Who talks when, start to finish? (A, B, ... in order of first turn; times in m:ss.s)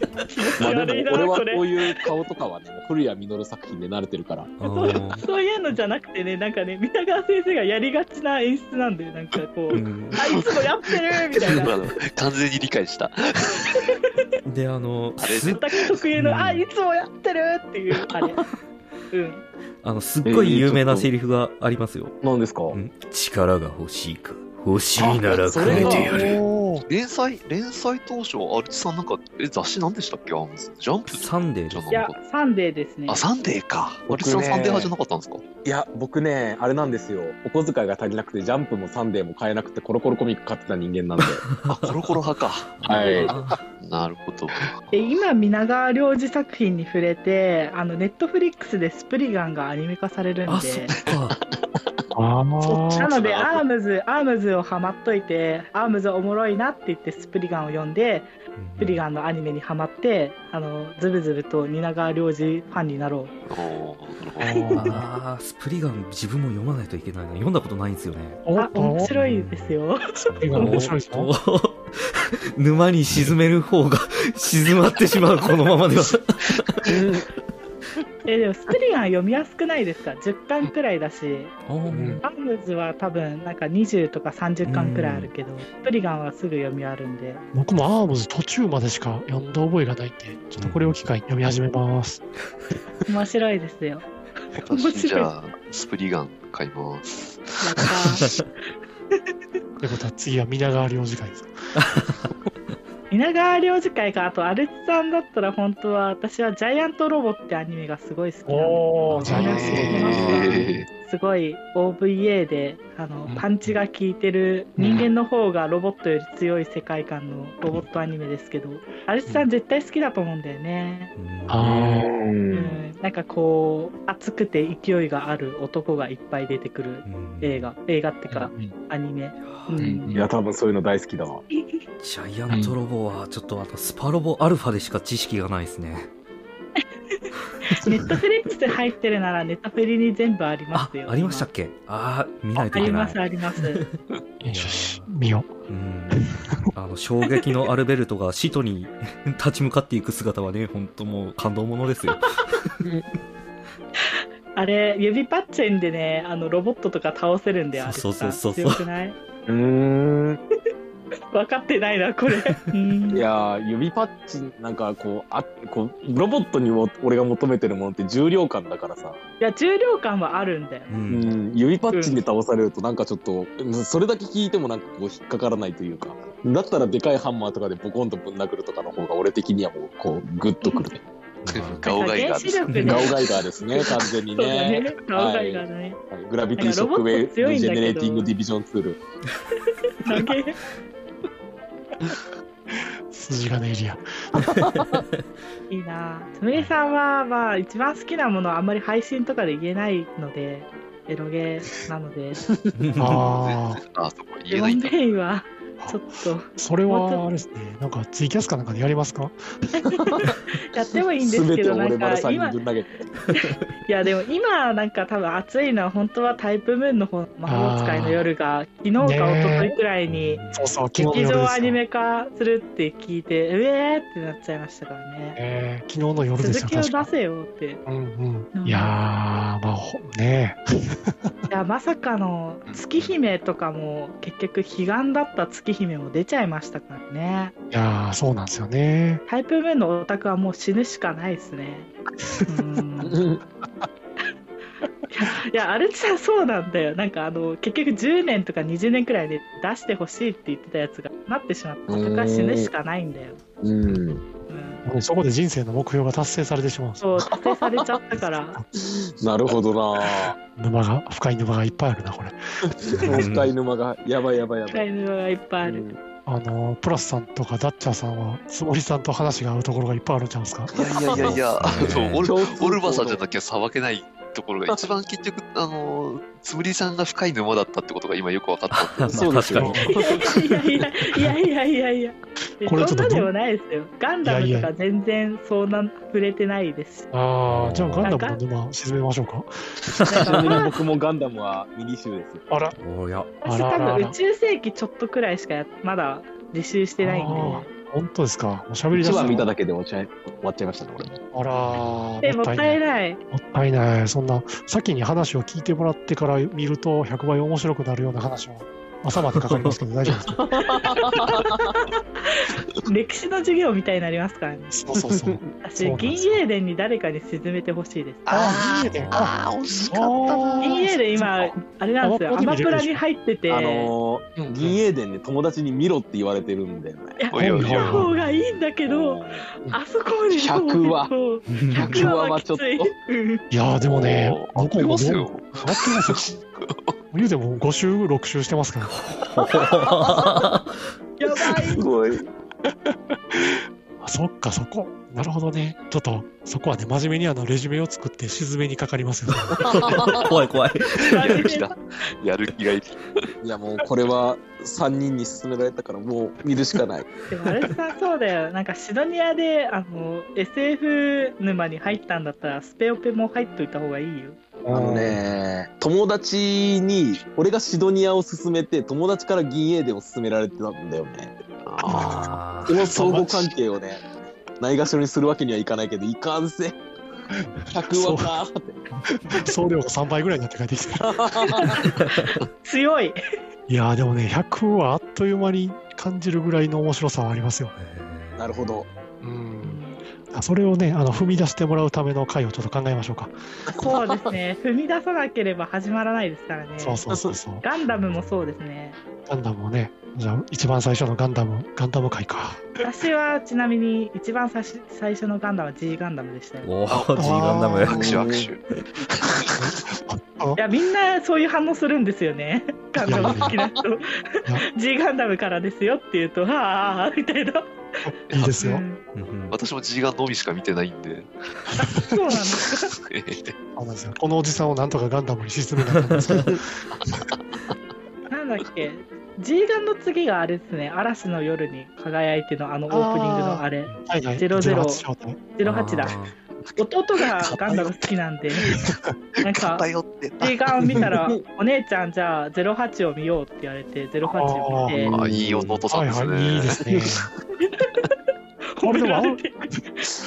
0:00.3-0:02.0 A
0:00.6-0:04.5 B
0:04.6-0:05.2 C
0:04.6-0:11.8 A
0:09.7-0:10.2 C
0:10.3-0:10.6 D
0:11.3-0:13.8 D
0:13.7-0:14.0 A
0:14.4-0:15.6 C
0:15.2-0:15.9 D
0:15.5-0:18.4 A
0:16.2-0:16.7 C
0:19.1-0:19.4 A
0:19.8-0:22.2 C
0:20.2-0:21.1 B
0:22.2-0:22.8 B
0:22.7-0:26.2 C
0:25.0-0:26.4 B
0:25.6-0:26.8 E
0:25.9-0:26.3 D
0:26.9-0:32.2 D
0:31.1-0:32.1 C
0:31.9-0:33.2 A
0:33.1-0:35.5 D
0:34.1-0:34.9 B
0:35.6-0:41.4 B
0:41.5-0:43.6 C
0:41.7-0:43.2 D
0:42.8-0:43.4 B
0:43.7-0:44.8 D
0:44.9-0:50.9 A
0:50.5-0:51.3 C
0:51.3-0:51.8 B
0:52.1-0:53.1 E
0:52.6-0:53.6 D
0:52.9-1:03.3 A
0:58.6-0:59.0 C
1:03.5-1:04.5 D
1:04.4-1:05.1 E
1:04.8-1:08.4 C
1:08.4-1:09.1 E
1:08.6-1:10.9 A
1:09.1-1:16.9 C
1:10.4-1:11.3 E
1:16.9-1:17.2 B
1:18.3-1:21.6 A
1:21.7-1:22.2 C
1:21.9-1:22.2 E
1:22.2-1:27.4 A
1:24.6-1:25.3 C
1:27.5-1:32.2 E
1:30.6-1:31.0 C
1:33.1-1:35.3 A
1:34.6-1:37.9 D
1:37.6-1:38.3 A
1:39.8-1:41.5 E
1:41.8-1:42.3 C
1:43.1-2:01.1 A
1:48.5-1:50.8 E
1:49.1-1:50.0 C
1:49.3-1:50.5 B
1:49.4-1:50.9 D
1:54.8-1:55.1 B
2:01.2-2:01.7 C
2:01.5-2:02.1 E
2:01.6-2:02.8 B
2:02.5-2:10.1 A
2:07.0-2:07.7 C
2:08.3-2:08.7 E
2:09.4-2:09.9 C
2:09.8-2:11.4 B
2:11.5-2:11.8 A
2:12.0-2:16.1 C
2:16.8-2:21.5 A
2:20.7-2:23.2 C
2:22.6-2:23.8 A
2:23.7-2:25.1 C
2:24.4-2:25.5 E
2:25.7-2:32.7 C
2:26.1-2:26.5 E
2:34.5-2:39.2 A
2:37.8-2:38.8 C
2:39.5-2:40.4 B
2:41.3-2:43.2 A
2:43.1-2:49.2 B
2:49.4-2:50.9 A
2:50.9-2:51.3 C
2:51.1-3:01.0 B
2:51.9-2:52.2 A
3:00.6-3:00.9 A
3:01.4-3:02.0 C
3:01.5-3:03.1 D
3:01.8-3:06.0 A
3:02.7-3:03.0 C
3:02.8-3:09.0 B
3:06.6-3:08.3 A
3:10.0-3:10.6 A
3:13.1-3:14.6 E
3:14.4-3:15.0 B
3:15.7-3:22.4 A
3:22.5-3:22.7 B
3:22.8-3:23.3 C
3:23.0-3:23.8 E
3:23.0-3:25.0 D
3:24.5-3:27.2 A
3:26.5-3:29.4 E
3:29.8-3:32.6 A
3:30.0-3:30.2 B
3:31.2-3:33.1 B
3:33.3-3:40.4 A
3:37.5-3:38.3 E
3:39.0-3:39.8 E
3:40.1-3:40.8 C
3:40.5-3:41.8 E
3:41.0-3:45.4 A
3:45.4-3:47.1 E
3:46.4-3:47.8 A
3:47.9-3:51.3 E
3:48.6-3:49.0 A
3:51.5-3:57.5 A
3:57.7-3:59.2 E
3:59.3-4:01.9 A
4:02.5-4:03.2 A
4:03.0-4:03.4 B
4:05.1-4:13.4 A
4:11.9-4:12.7 B
4:13.6-4:14.2 B
4:14.5-4:14.8 A
4:14.8-4:17.1 E
4:17.0-4:18.6 A
4:18.8-4:20.4 B
4:20.3-4:22.4 E
4:22.9-4:24.8 B
4:22.9-4:23.2 E
4:23.0-4:23.5 C
4:24.7-4:25.8 A
4:25.6-4:26.0 B
4:26.3-4:30.7 E
4:30.7-4:39.3 D
4:30.8-4:31.4 B
4:31.2-4:32.3 C
4:32.2-4:33.2 B
4:34.7-4:35.0 B
4:38.7-4:40.4 C
4:39.1-4:40.0 B
4:39.6-4:40.0 E
4:40.0-4:47.1 A
4:42.6-4:43.3 E
4:44.2-4:44.7 E
4:47.1-4:49.5 E
4:47.5-4:48.1 C
4:48.0-4:48.4 A
4:50.1-4:52.5 B
4:50.1-4:50.7 A
4:52.5-4:52.8 E
4:52.8-4:53.3 C
4:53.4-4:57.7 A
4:53.4-4:54.2 E
4:57.0-4:59.6 E
4:59.0-5:01.2 B
5:01.3-5:02.8 E
5:01.6-5:02.1 C
5:02.2-5:03.2 A
5:03.3-5:10.4 E
5:09.5-5:09.8 C
5:10.2-5:11.7 B
5:10.8-5:11.1 A
5:11.9-5:14.8 A
5:14.7-5:16.4 E
5:15.1-5:15.4 B
5:15.6-5:18.4 A
5:18.3-5:20.9 D
5:18.3-5:23.0 E
5:18.9-5:19.3 C
5:20.6-5:23.9 A
5:23.5-5:27.3 B
5:24.4-5:24.8 E
5:27.2-5:33.4 A
5:27.3-5:28.1 D
5:27.4-5:28.1 E
5:28.1-5:28.5 C
5:28.8-5:29.4 B
5:30.3-5:31.1 B
5:31.5-5:32.1 C
5:31.8-5:32.9 B
5:33.5-5:36.4 E
5:33.8-5:36.3 D
5:37.1-5:38.9 E
5:38.9-5:40.8 C
5:41.2-5:41.8 A
5:41.7-5:42.3 B
5:44.0-5:49.9 E
5:49.6-5:51.5 C
5:49.6-5:50.2 B
5:51.0-5:53.0 D
5:51.1-5:51.7 A
5:53.4-5:57.1 B
5:57.3-6:04.4 A
6:04.6-6:05.2 E
6:04.7-6:11.4 B
6:11.6-6:12.3 D
6:11.9-6:13.5 E
6:11.9-6:13.0 C
6:12.6-6:14.0 B
6:14.6-6:16.8 B
6:17.7-6:18.8 B
6:17.8-6:18.3 E
6:19.3-6:21.8 E
6:21.1-6:21.8 B
6:22.3-6:23.2 A
6:23.7-6:27.7 E
6:27.8-6:29.0 C
6:28.4-6:28.9 B
6:29.2-6:33.4 E
6:29.6-6:30.0 A
6:33.7-6:34.3 B
6:33.8-6:37.0 A
6:36.8-6:37.6 E
6:37.6-6:39.0 A
6:38.0-6:38.6 C
6:39.3-6:42.7 E
6:42.8-6:46.7 A
6:46.6-6:48.1 C
6:46.9-6:48.6 D
6:47.2-6:48.1 E
6:47.8-6:48.5 B
6:49.6-6:50.6 E
6:50.6-6:57.7 A
6:53.0-6:53.6 E
6:58.1-6:58.8 E
6:58.3-6:58.6 D
6:58.6-6:59.0 A
6:59.1-6:59.6 C
6:59.5-7:01.8 D
7:02.1-7:02.9 A
7:03.1-7:03.5 D
7:03.8-7:06.8 E
7:08.3-7:15.0 A
7:12.9-7:15.4 E
7:15.6-7:16.2 A
7:15.6-7:16.4 C
7:16.8-7:18.6 A
7:19.4-7:19.9 A
7:19.4-7:20.6 D
7:20.4-7:25.1 A
7:20.9-7:21.3 B
7:24.2-7:25.2 E
7:25.0-7:25.8 B
7:25.1-7:26.8 D
7:25.9-7:27.3 E
7:27.6-7:28.1 A
7:28.8-7:30.0 A
7:28.8-7:29.4 E